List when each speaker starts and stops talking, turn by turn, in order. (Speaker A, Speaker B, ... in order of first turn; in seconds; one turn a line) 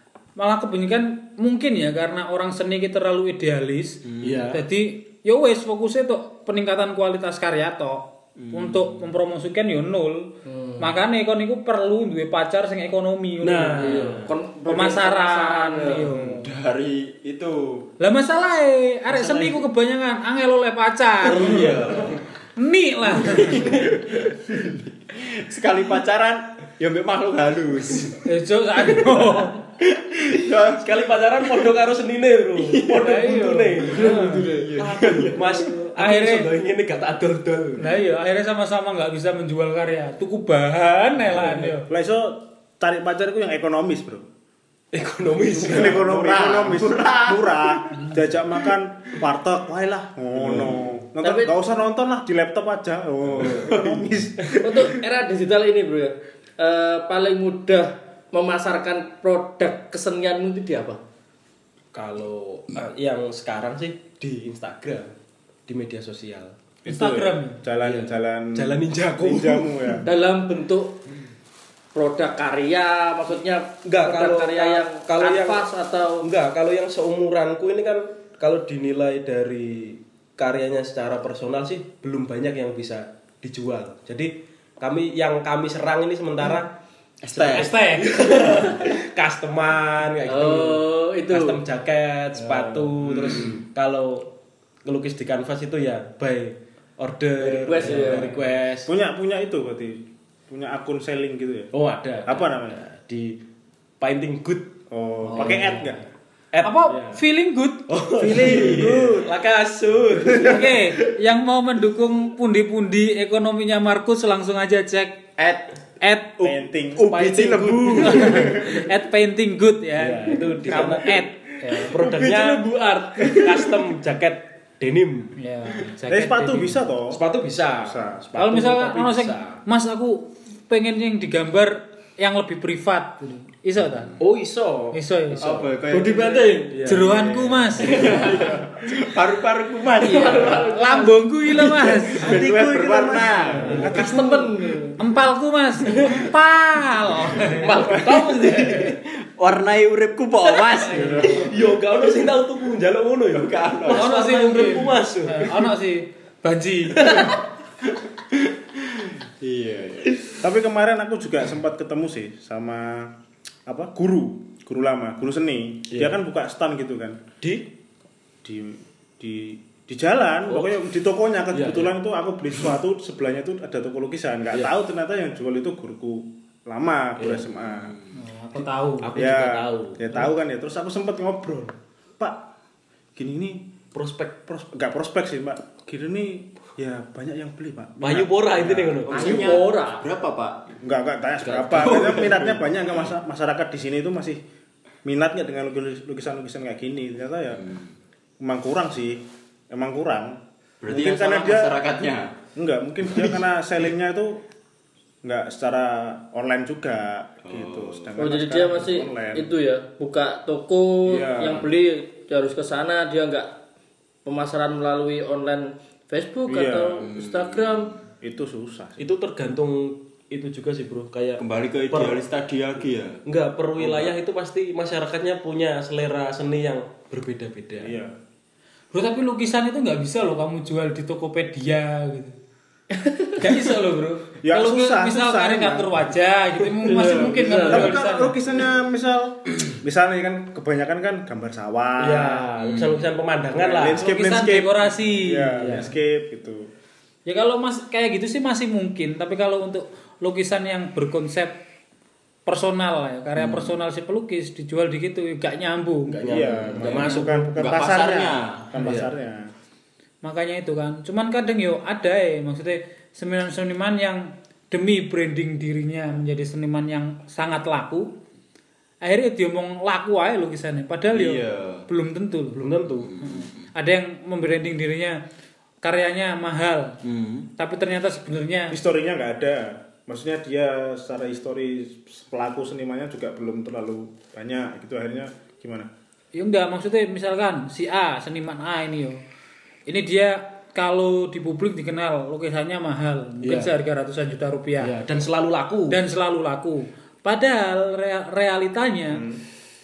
Speaker A: 0.4-16.5
Speaker B: 4.1-4.5
Speaker C: 4.2-4.6
Speaker B: 8.4-9.1
Speaker D: 10.5-10.9
Speaker C: 13.4-14.3
Speaker D: 13.7-16.1
Speaker B: 16.1-17.9
Speaker A: 18.0-23.8
Speaker D: 19.2-19.6
Speaker B: 21.2-22.2
Speaker C: 21.5-22.1
Speaker B: 23.1-28.3
Speaker C: 23.4-23.9
Speaker A: 28.2-29.6
Speaker B: 28.9-29.3
Speaker B: 29.8-30.9
Speaker C: 30.6-37.9
Speaker B: 32.6-33.4
Speaker A: 33.0-34.4
Speaker D: 33.8-34.7
Speaker B: 34.1-35.7
Speaker A: 35.6-36.5
Speaker A: 37.8-41.9
Speaker E: 41.7-44.3
Speaker C: 44.9-46.8
Speaker E: 45.5-54.9
Speaker B: 46.0-47.8
Speaker B: 50.4-51.0
Speaker D: 51.2-51.5
Speaker B: 53.4-54.0
Speaker D: 54.6-61.0
Speaker C: 61.9-65.1
Speaker C: 65.7-66.5
Speaker E: 66.8-70.0
Speaker A: 66.9-67.6
Speaker C: 67.8-70.0
Speaker D: 70.0-71.0
Speaker D: 71.9-76.3
Speaker C: 73.8-75.7
Speaker C: 76.2-86.7
Speaker B: 87.2-87.7
Speaker C: 87.3-94.3
Speaker A: 87.5-88.5
Speaker D: 90.3-91.6
Speaker E: 93.1-93.5
Speaker C: 94.8-98.9
Speaker D: 97.4-98.5
Speaker E: 98.8-101.7
Speaker C: 101.7-103.4
Speaker E: 102.3-102.8
Speaker C: 104.0-104.7
Speaker E: 104.9-106.0
Speaker C: 105.2-106.0
Speaker C: 106.5-107.2
Speaker A: 106.6-108.7
Speaker C: 107.9-111.0
Speaker E: 108.3-109.2
Speaker B: 108.4-109.1
Speaker D: 108.7-109.0
Speaker A: 110.4-115.2
Speaker B: 115.4-115.7
Speaker A: 116.0-116.5
Speaker E: 116.4-117.1
Speaker B: 117.0-118.8
Speaker C: 117.1-118.8
Speaker A: 118.0-122.2
Speaker C: 120.0-121.2
Speaker C: 121.8-125.4
Speaker B: 122.1-122.6
Speaker A: 125.4-126.8
Speaker E: 126.1-127.2
Speaker C: 127.1-129.6
Speaker E: 127.8-128.2
Speaker A: 128.4-134.1
Speaker C: 134.2-135.0
Speaker A: 134.9-135.7
Speaker B: 135.4-140.7
Speaker D: 135.9-136.9
Speaker C: 136.7-137.2
Speaker A: 136.8-138.3
Speaker C: 137.8-138.5
Speaker D: 138.0-138.5
Speaker D: 140.0-141.2
Speaker C: 140.1-140.5
Speaker A: 140.4-142.4
Speaker B: 141.8-144.2
Speaker E: 142.2-144.5
Speaker C: 142.2-144.1
Speaker D: 143.7-145.0
Speaker A: 145.0-147.8
Speaker C: 147.3-149.0
Speaker D: 147.6-148.8
Speaker B: 147.7-151.7
Speaker C: 150.6-155.7
Speaker D: 150.9-151.5
Speaker E: 151.0-151.4
Speaker B: 153.3-154.1
Speaker A: 153.9-157.3
Speaker C: 156.9-157.4
Speaker B: 158.3-160.4
Speaker E: 160.4-163.1
Speaker E: 163.7-167.2
Speaker C: 165.9-166.2
Speaker C: 167.4-167.7
Speaker E: 168.4-177.9
Speaker C: 170.5-170.8
Speaker C: 171.5-171.9
Speaker C: 177.2-177.5
Speaker B: 177.6-178.1
Speaker A: 178.2-179.1
Speaker C: 179.0-180.3
Speaker E: 179.1-182.4
Speaker E: 183.2-183.7
Speaker C: 183.9-184.5
Speaker E: 184.5-189.6
Speaker C: 188.0-189.5
Speaker B: 188.6-190.8
Speaker D: 189.2-190.1
Speaker E: 190.8-194.4
Speaker B: 191.4-192.6
Speaker C: 191.5-192.3
Speaker E: 195.0-197.7
Speaker B: 197.6-197.9
Speaker E: 198.4-201.8
Speaker B: 200.8-202.3
Speaker E: 202.6-204.4
Speaker B: 203.1-203.4
Speaker E: 205.2-209.5
Speaker B: 207.5-208.2
Speaker D: 208.2-213.6
Speaker E: 211.1-211.7
Speaker D: 214.2-217.9
Speaker E: 216.5-217.1
Speaker B: 217.0-218.0
Speaker E: 218.2-219.0
Speaker C: 219.0-222.2
Speaker B: 221.4-223.2
Speaker C: 223.3-227.9
Speaker B: 223.8-224.1
Speaker E: 227.8-228.2
Speaker A: 228.9-232.4
Speaker D: 232.9-233.5
Speaker A: 233.4-238.4
Speaker E: 234.4-236.1
Speaker D: 236.8-238.0
Speaker E: 237.2-242.5
Speaker C: 242.0-244.0
Speaker B: 242.6-243.1
Speaker E: 243.6-246.7
Speaker A: 244.0-245.9
Speaker C: 245.6-245.9
Speaker A: 247.3-251.6
Speaker A: 252.5-257.5
Speaker B: 253.4-253.7
Speaker C: 256.2-257.3
Speaker E: 256.2-259.5
Speaker B: 257.0-258.7
Speaker C: 258.8-259.1
Speaker A: 260.2-268.1
Speaker A: 269.0-272.6
Speaker B: 271.1-271.9
Speaker C: 272.5-273.3
Speaker B: 273.0-273.7
Speaker A: 273.2-275.2
Speaker A: 275.8-277.0
Speaker B: 277.0-277.5
Speaker A: 277.6-278.8
Speaker E: 278.7-285.9
Speaker A: 286.3-289.2
Speaker A: 289.9-294.9
Speaker C: 293.4-293.7
Speaker C: 294.8-296.0
Speaker A: 295.9-299.2
Speaker E: 299.1-299.4